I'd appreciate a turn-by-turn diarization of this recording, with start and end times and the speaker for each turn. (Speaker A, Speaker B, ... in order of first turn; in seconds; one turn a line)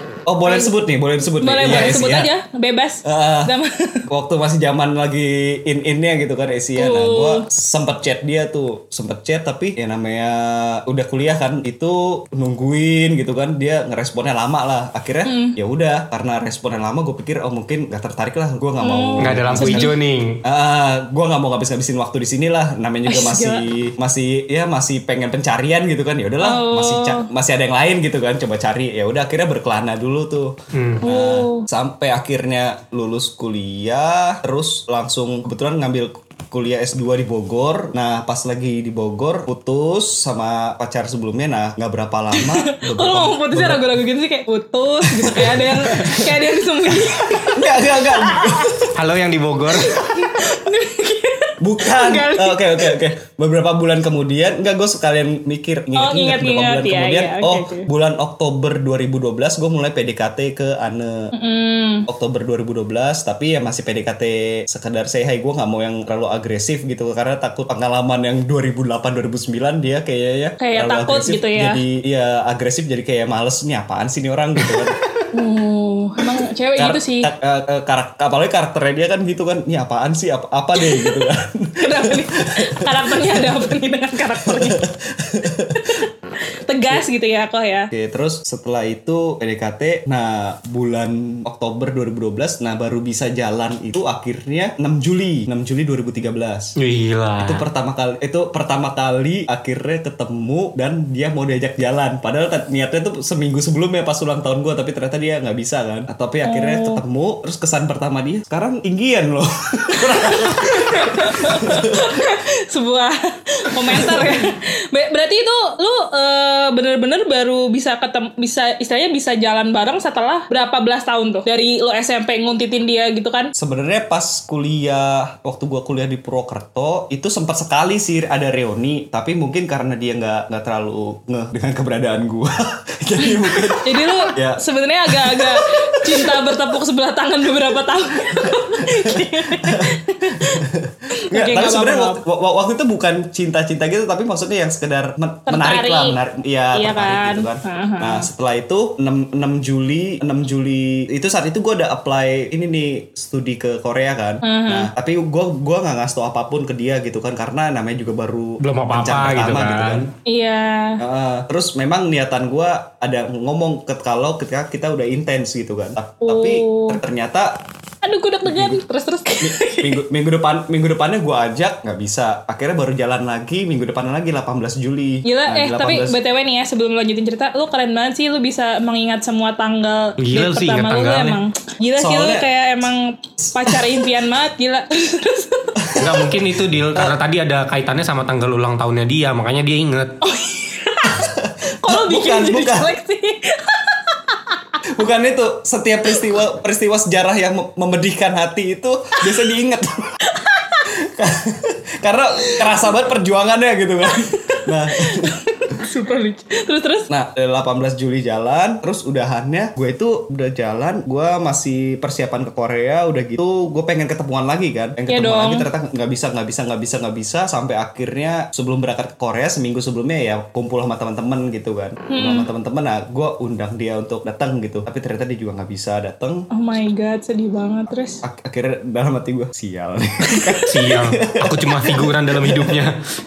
Speaker A: 0.3-2.3
Speaker B: 0.4-0.7
Speaker B: 1.4-4.0
Speaker A: 3.0-3.5
Speaker A: 4.1-19.9
Speaker B: 6.8-7.4
Speaker B: 15.2-15.6
Speaker B: 18.8-19.9
Speaker C: 19.2-20.4
Speaker A: 20.4-44.0
Speaker B: 23.1-23.6
Speaker B: 26.4-27.3
Speaker C: 30.7-31.1
Speaker B: 31.0-31.7
Speaker B: 42.3-48.9
Speaker A: 45.0-46.4
Speaker A: 47.5-48.9
Speaker C: 48.9-50.0
Speaker B: 49.8-53.0
Speaker A: 51.6-61.3
Speaker B: 55.9-57.9
Speaker B: 61.3-62.0
Speaker A: 62.0-75.0
Speaker B: 70.6-71.8
Speaker B: 75.3-77.3
Speaker A: 76.8-83.7
Speaker B: 80.8-81.2
Speaker B: 81.8-84.8
Speaker A: 84.4-86.0
Speaker B: 85.8-87.9
Speaker A: 87.9-96.7
Speaker C: 96.8-97.6
Speaker A: 97.4-112.2
Speaker B: 106.4-107.0
Speaker B: 109.9-123.5
Speaker A: 113.8-114.5
Speaker A: 123.5-136.6
Speaker B: 133.2-142.2
Speaker A: 138.4-160.1
Speaker B: 145.5-146.2
Speaker B: 146.7-148.3
Speaker B: 154.4-154.9
Speaker C: 158.6-160.1
Speaker B: 160.2-161.0
Speaker A: 161.0-167.5
Speaker B: 166.2-167.0
Speaker B: 168.0-170.0
Speaker A: 168.4-168.8
Speaker A: 169.4-176.2
Speaker B: 175.2-186.2
Speaker C: 180.2-181.4
Speaker A: 182.0-182.5
Speaker A: 183.4-183.9
Speaker A: 185.8-186.2
Speaker C: 186.0-190.1
Speaker B: 190.2-194.8
Speaker A: 191.0-192.9
Speaker A: 194.9-200.2
Speaker B: 200.3-200.9
Speaker A: 200.9-205.4
Speaker B: 202.4-202.8
Speaker B: 204.4-207.1
Speaker A: 207.1-226.4
Speaker B: 215.1-215.7
Speaker B: 222.1-222.4
Speaker B: 226.5-228.2
Speaker A: 228.2-232.8
Speaker B: 230.3-230.7
Speaker C: 230.7-233.0